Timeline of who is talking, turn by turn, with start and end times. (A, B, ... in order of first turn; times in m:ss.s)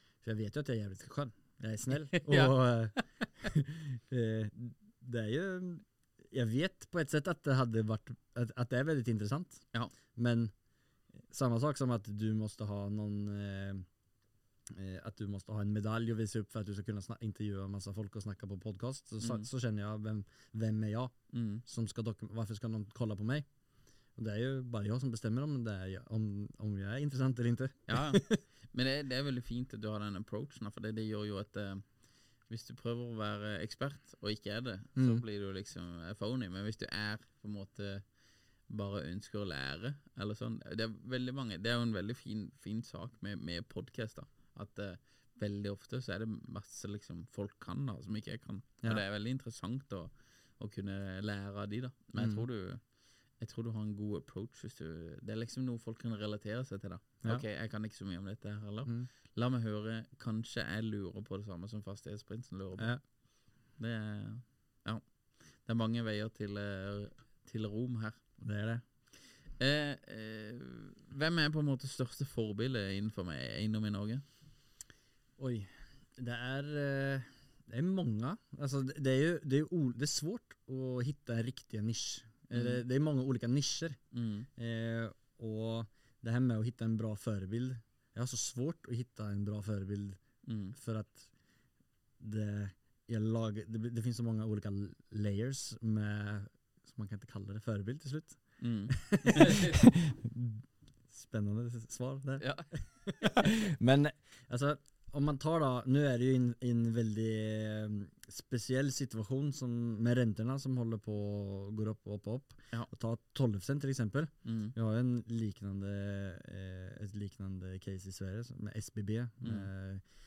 0:00.2-0:09.6 A
0:02.1-0:02.5 B
0:10.1-0:10.5 A
0:11.3-0:13.8 A
0:14.7-0:21.1 A
0:19.2-0:19.5 B
0:21.3-0:21.6 B
0:21.6-0:23.4 A
0:24.2-0:28.4 A
0:27.9-0:31.8 B
0:32.5-0:38.0 B
0:35.0-0:35.2 A
0:38.7-0:52.8 B
0:52.2-0:52.4 A
0:53.4-1:03.0 B
1:03.8-1:05.0 B
1:05.6-1:08.2 B
1:08.4-1:08.8 A
1:09.6-1:14.2 B
1:15.4-1:24.0 A
1:22.5-1:22.8 B
1:24.1-1:24.5 B
1:24.6-1:30.2 A
1:30.4-1:30.8 B
1:30.7-1:31.3 A
1:32.2-2:00.0 A
1:38.6-1:39.8 B
1:42.4-1:43.5 B
1:54.4-1:54.7 B
1:59.4-1:59.7 B